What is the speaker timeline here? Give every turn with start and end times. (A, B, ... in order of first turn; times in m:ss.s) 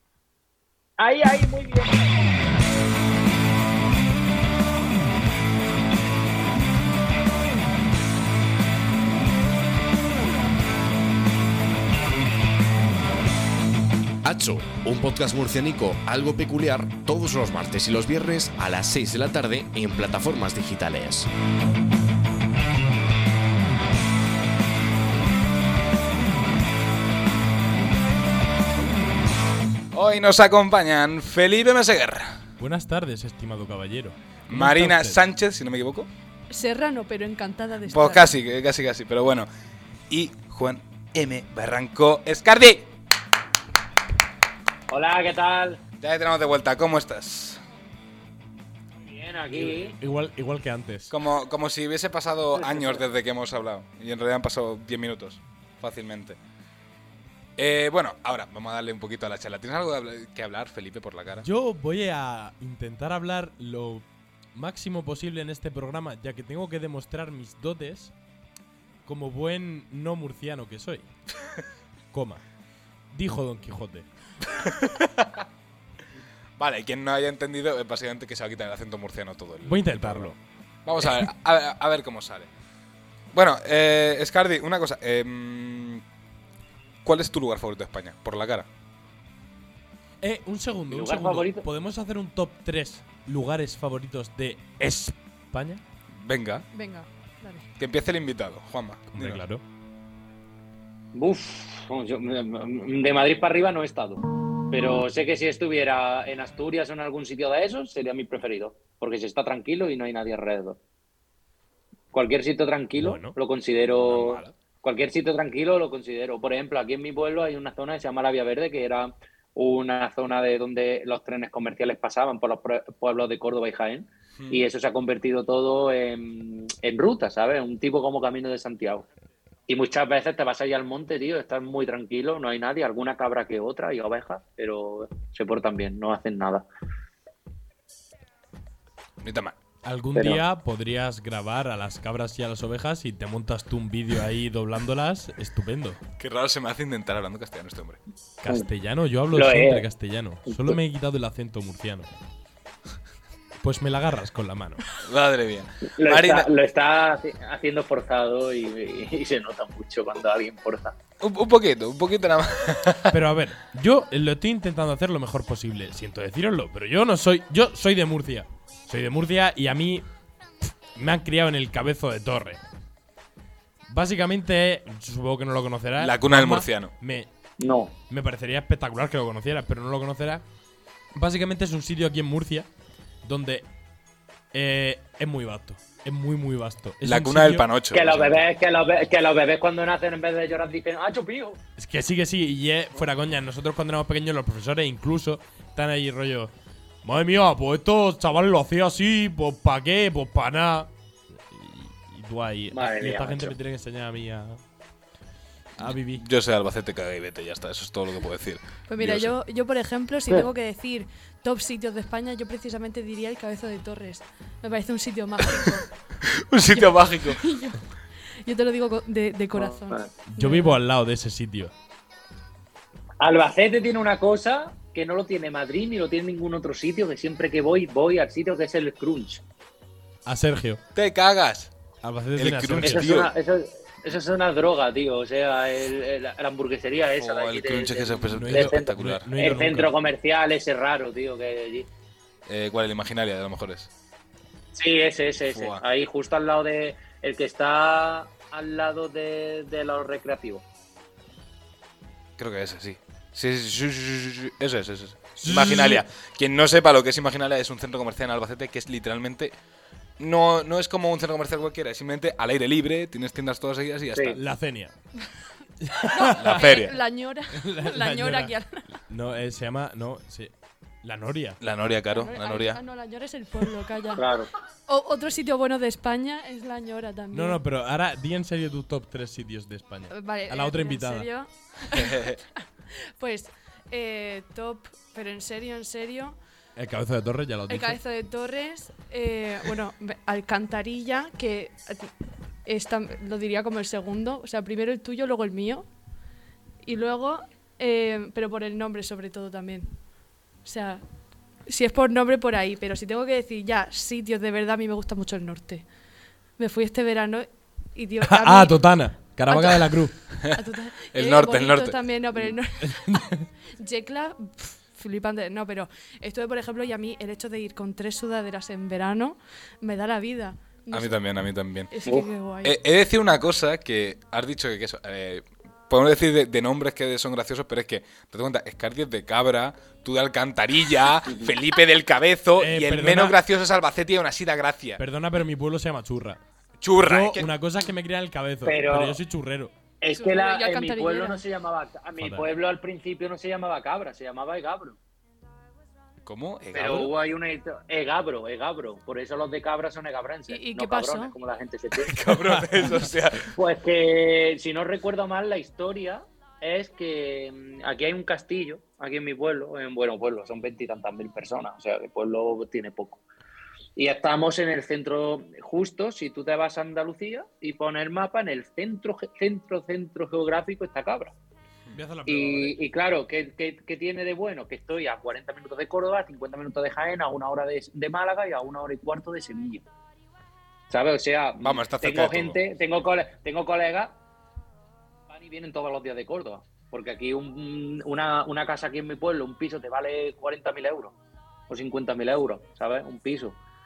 0:01.0-0:02.3 A
0:14.2-0:21.3 B
0:29.9-0:32.4 C
0:32.6-0:35.2 D
0:34.5-0:36.1 C
0:36.5-0:38.3 E
0:37.8-0:39.5 C
0:40.1-0:42.9 C
0:44.9-0:45.8 A
0:46.0-0:47.6 C
0:49.0-0:49.9 A
0:49.5-0:51.1 D
0:51.1-0:56.4 C
0:52.6-0:53.0 A
0:57.6-1:01.5 C
1:01.4-1:08.1 D
1:09.1-1:11.1 D
1:12.1-1:12.4 D
1:13.1-1:14.1 D
1:14.6-1:15.4 C
1:16.6-1:20.3 C
1:19.6-1:20.4 D
1:20.8-1:22.5 C
1:23.3-1:26.0 C
1:27.0-1:28.7 C
1:30.2-1:35.8 D
1:30.9-1:31.6 A
1:36.1-1:36.7 C
1:36.7-1:37.7 E
1:37.8-1:39.4 C
1:39.1-1:39.6 D
1:41.2-1:50.8 A
1:52.1-2:09.1 A
1:53.0-1:53.4 D
1:53.9-1:54.6 C
2:04.4-2:04.6 C
2:09.7-2:16.7 A
2:19.2-2:19.6 C
2:19.8-2:26.0 D
2:20.1-2:20.4 A
2:26.2-2:28.0 C
2:28.4-2:32.1 D
2:29.3-2:29.9 A
2:30.5-2:30.8 A
2:33.6-2:34.8 D
2:35.0-2:36.5 C
2:36.0-2:40.9 A
2:41.2-2:43.2 C
2:43.1-2:50.0 D
2:50.9-2:52.6 D
2:53.9-2:57.3 D
2:56.0-2:56.9 C
2:57.6-2:57.9 A
2:58.1-3:00.4 D
3:01.2-3:02.7 D
3:03.2-3:03.7 D
3:04.5-3:07.7 D
3:07.0-3:08.5 C
3:07.9-3:11.6 A
3:11.8-3:16.5 D
3:17.0-3:20.9 D
3:21.5-3:24.6 D
3:22.7-3:23.6 A
3:25.8-3:26.2 D
3:25.8-3:29.4 C
3:28.9-3:35.9 E
3:36.2-3:37.4 C
3:36.7-3:37.8 E
3:38.4-3:40.8 E
3:39.5-3:40.0 A
3:40.3-3:41.7 D
3:43.2-3:49.4 A
3:50.3-3:50.8 D
3:50.9-3:51.7 C
3:52.0-3:53.2 D
3:52.4-3:53.3 C
3:52.8-4:01.9 A
3:57.1-3:59.3 C
3:58.3-3:59.9 D
4:02.5-4:03.9 C
4:04.8-4:10.6 A
4:05.5-4:05.8 C
4:12.4-4:19.5 C
4:15.4-4:16.0 D
4:20.2-4:24.4 C
4:24.4-4:24.9 D
4:25.8-4:26.6 D
4:26.1-4:28.9 E
4:26.3-4:27.0 C
4:27.6-4:28.5 D
4:29.0-4:30.5 D
4:31.0-4:31.6 D
4:31.6-4:32.8 C
4:32.1-4:34.3 E
4:34.2-4:34.5 A
4:34.9-4:37.6 E
4:37.3-4:41.3 D
4:40.1-4:42.6 E
4:42.0-4:42.4 C
4:43.2-4:46.4 E
4:46.8-4:48.0 D
4:47.7-4:52.1 E
4:52.6-4:55.9 E
4:56.8-5:00.0 E
5:00.6-5:01.0 E
5:01.7-5:05.9 E
5:06.6-5:08.9 E
5:08.2-5:10.2 D
5:09.5-5:13.2 E
5:11.1-5:12.1 C
5:12.8-5:13.5 D
5:13.8-5:21.3 E
5:20.9-5:22.0 C
5:21.9-5:22.8 E
5:22.6-5:35.0 C
5:32.6-5:33.4 D
5:35.0-5:36.4 D
5:36.8-5:37.5 C
5:37.0-5:39.7 D
5:38.6-5:39.2 A
5:40.0-5:45.0 A
5:40.1-5:41.4 E
5:42.2-5:42.4 D
5:46.2-5:47.1 C
5:46.7-5:52.2 A
5:50.5-5:51.3 E
5:52.0-5:53.5 C
5:52.3-5:53.1 D
5:53.6-6:03.2 A
6:04.0-6:11.3 A
6:11.9-6:12.8 D
6:12.3-6:19.8 A
6:20.9-6:24.2 A
6:21.6-6:22.6 C
6:25.3-6:31.1 A
6:31.7-6:33.6 A